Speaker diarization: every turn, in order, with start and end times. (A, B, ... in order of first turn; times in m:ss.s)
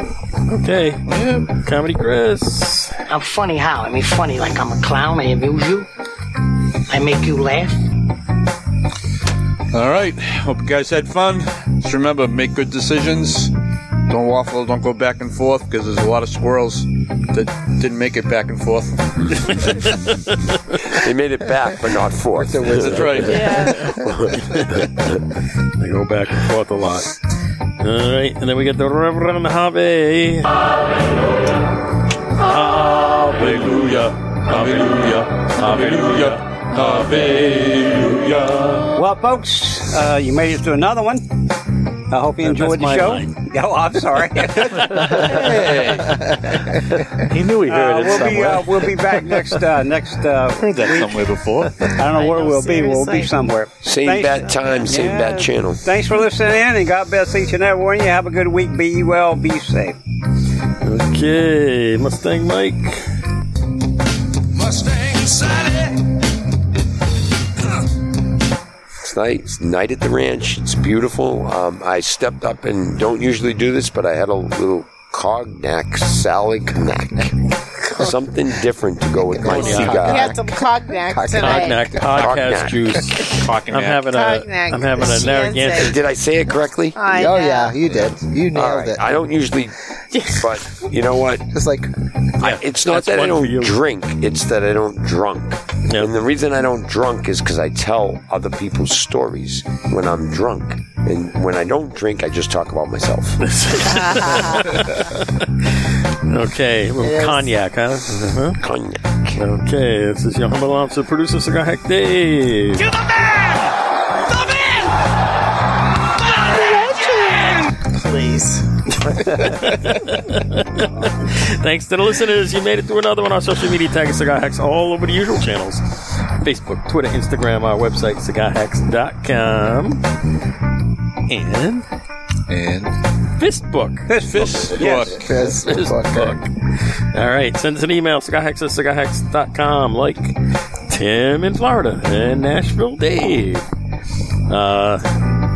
0:00.5-0:03.0 A
0:01.1-0:01.5 B
0:03.1-0:05.9 C
0:06.9-0:07.8 C
0:09.7-0:13.5 B
0:14.1-0:19.9 B
0:19.3-0:21.0 A
0:20.8-0:25.3 D
0:22.4-0:24.3 E
0:22.9-0:23.6 B
0:23.2-0:23.8 F
0:24.3-0:27.2 A
0:27.8-0:30.7 A
0:32.4-0:37.5 A
0:33.5-0:34.0 B
0:34.5-0:35.1 B
0:35.6-0:38.4 B
0:38.3-0:38.9 A
0:38.9-0:41.4 G
0:42.1-0:46.0 G
0:42.4-0:43.4 A
0:44.6-0:45.2 A
0:45.0-0:49.6 H
0:45.2-0:46.1 B
0:47.6-0:51.3 G
0:50.6-0:51.9 B
0:51.8-1:00.0 G
0:52.0-0:53.4 F
0:53.8-0:55.8 D
0:54.4-0:54.9 F
1:00.8-1:03.1 A
1:09.0-1:20.3 D
1:19.1-1:22.3 E
1:19.5-1:21.9 F
1:19.5-1:20.1 A
1:21.3-1:26.0 A
1:22.0-1:23.0 D
1:23.2-1:24.0 B
1:24.0-1:26.0 F
1:25.7-1:27.0 D
1:26.9-1:27.8 F
1:27.1-1:29.2 E
1:28.5-1:31.5 D
1:30.1-1:30.4 F
1:31.5-1:31.9 E
1:32.4-1:43.5 D
1:32.4-1:33.8 A
1:35.9-1:36.1 A
1:43.4-1:48.6 A
1:43.9-1:44.7 F
1:47.0-1:47.5 F
1:48.6-1:49.4 D
1:49.4-1:52.9 A
1:54.5-1:54.8 F
1:56.3-1:58.7 F
1:59.0-2:10.0 A
2:11.3-2:11.8 A
2:12.5-2:13.0 B
2:13.4-2:14.1 A
2:14.1-2:15.2 G
2:14.2-2:15.5 B
2:15.1-2:16.4 E
2:15.4-2:20.4 A
2:20.9-2:23.6 A
2:24.5-2:25.3 A